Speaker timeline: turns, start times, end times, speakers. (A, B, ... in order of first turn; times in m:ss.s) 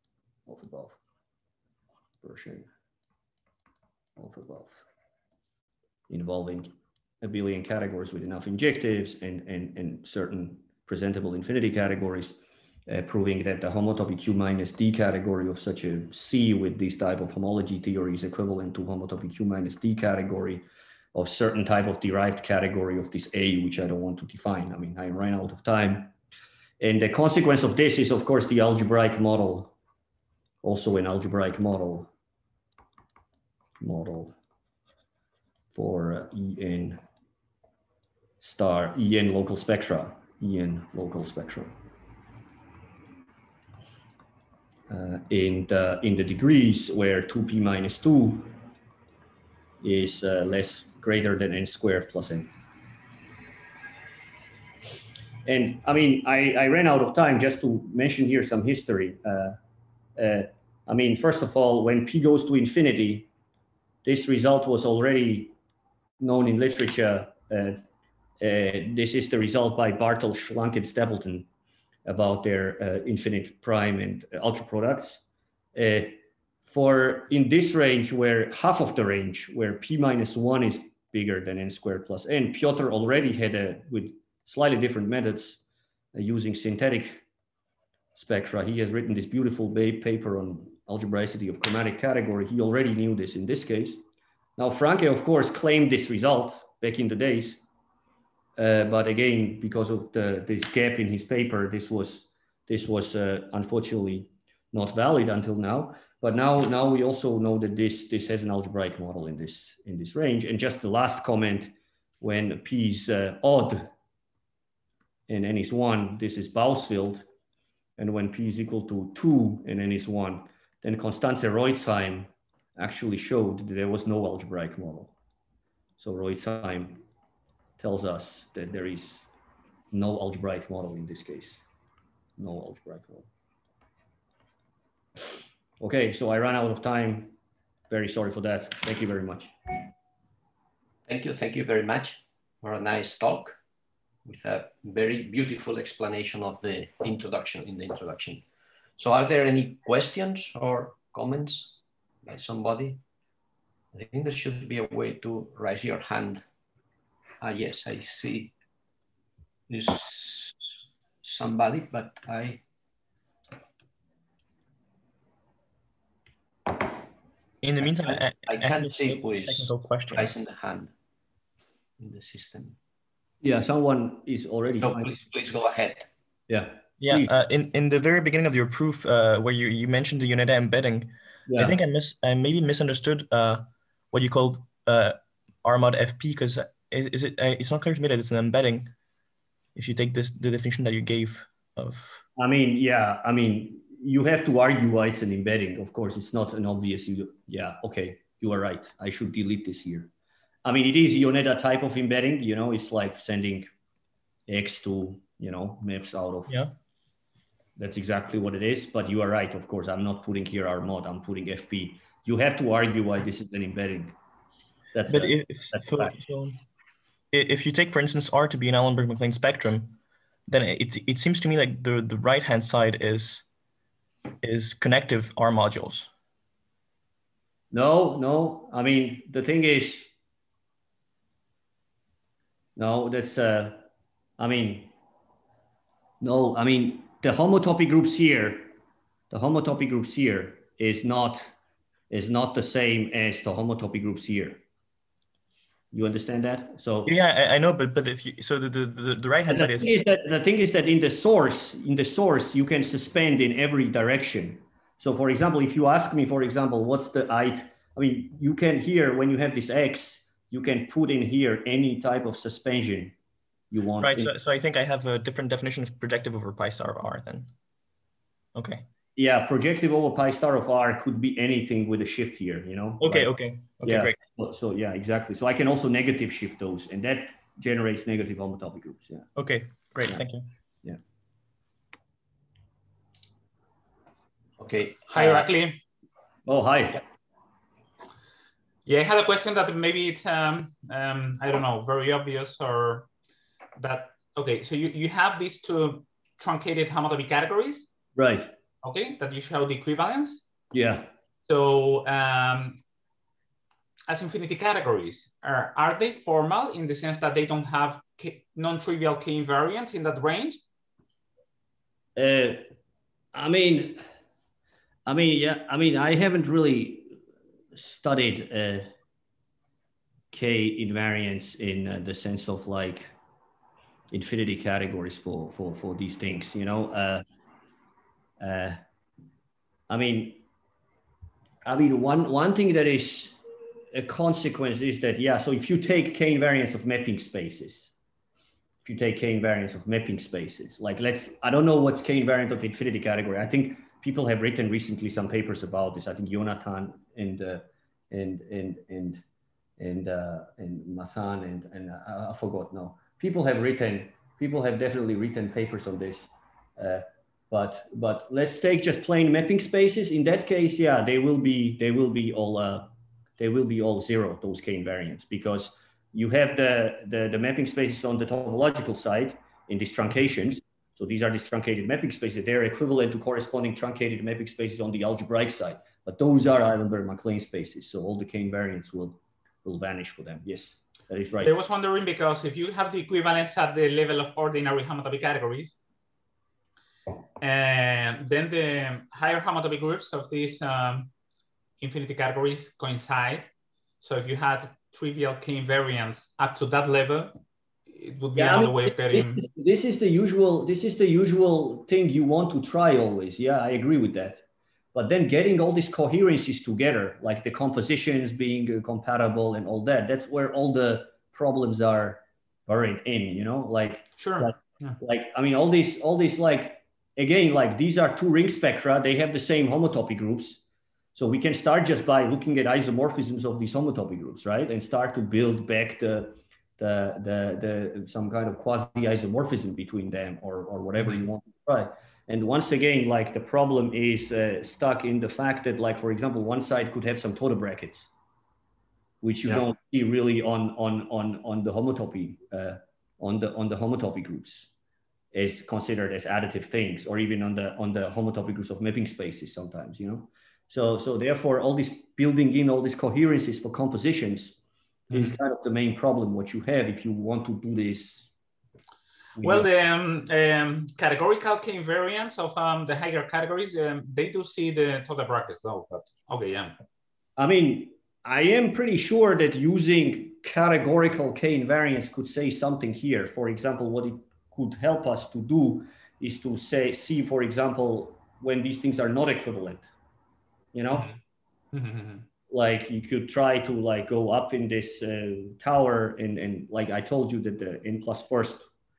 0:00.5-0:01.0 A
0:02.2-0:02.7 A
0:04.2-0:04.8 A
0:06.1-0:26.1 A
0:26.8-0:29.7 A
0:30.6-0:32.1 A
0:33.8-0:34.4 A
0:35.7-0:37.0 A
0:38.4-0:41.7 A
0:44.9-0:48.5 A
0:49.8-0:52.5 A
0:55.4-0:59.6 A
1:00.2-1:03.3 A
1:04.0-1:05.5 A
1:06.2-1:07.8 A
1:08.4-1:11.5 A
1:12.1-1:15.2 A
1:15.7-1:25.6 A
1:26.1-1:27.2 A
1:28.2-1:34.0 A
1:34.6-1:37.6 A
1:38.6-1:53.9 A
1:55.3-1:57.2 A
1:58.0-2:05.1 A
2:06.0-2:07.0 A
2:07.8-2:09.3 A
2:09.9-2:11.6 A
2:12.4-2:13.3 A
2:15.8-2:17.4 A
2:17.9-2:19.5 A
2:21.1-2:23.6 B
2:24.2-2:28.4 B
2:29.0-2:33.0 B
2:33.9-2:36.4 B
2:37.4-2:38.5 B
2:39.7-2:40.7 B
2:41.2-2:42.6 B
2:47.6-2:50.3 C
2:47.8-2:50.9 B
2:52.0-2:52.8 B
2:53.4-2:55.1 A
2:54.8-2:56.1 B
2:56.5-2:57.3 A
2:57.0-3:08.9 C
3:01.5-3:01.8 A
3:09.7-3:12.3 C
3:12.4-3:20.1 A
3:20.6-3:23.7 A
3:24.5-3:26.6 A
3:27.8-3:34.2 A
3:34.9-3:36.2 A
3:35.1-3:36.6 C
3:37.3-3:40.0 C
3:40.5-3:43.4 C
3:44.4-3:46.1 C
3:47.7-3:50.1 A
3:52.8-3:53.9 A
3:54.4-3:54.9 A
3:56.2-3:58.7 A
3:59.3-4:01.5 A
4:02.1-4:04.6 A
4:05.9-4:07.1 A
4:07.1-4:10.0 C
4:09.5-4:23.2 A
4:23.7-4:24.3 A
4:24.0-4:27.5 C
4:28.6-4:28.9 C
4:29.2-4:33.3 A
4:33.0-4:34.2 C
4:33.8-4:39.3 A
4:39.4-4:40.5 C
4:44.6-4:45.5 B
4:45.1-4:45.8 D
4:46.5-4:47.0 A
4:48.9-4:53.1 D
4:53.8-4:57.9 D
4:58.2-4:58.5 A
4:58.8-5:00.4 D
5:00.7-5:01.1 A
5:01.5-5:02.8 D
5:04.1-5:10.6 D
5:12.2-5:12.6 A
5:13.3-5:14.0 A
5:15.1-5:17.1 A
5:17.7-5:18.9 A
5:20.3-5:23.1 A
5:24.1-5:27.2 A
5:28.4-5:28.8 A
5:29.9-5:30.4 A
5:31.6-5:33.4 A
5:33.9-5:37.9 A
5:38.8-5:49.2 A
5:49.8-6:21.5 A
6:21.4-6:25.8 D
6:27.4-6:31.1 D
6:31.8-6:33.5 D
6:34.0-6:37.3 D
6:37.9-6:39.5 D
6:38.4-7:00.6 A
6:54.2-6:55.0 D
7:01.2-7:18.1 A
7:19.2-7:24.7 A
7:25.3-7:34.6 A
7:35.1-7:38.3 A
7:35.1-7:35.4 D
7:39.4-7:39.7 A
7:39.4-7:46.8 D
7:47.4-7:59.9 A
8:00.7-8:01.1 A
8:00.9-8:01.2 D
8:01.7-8:02.2 D
8:02.5-8:08.7 A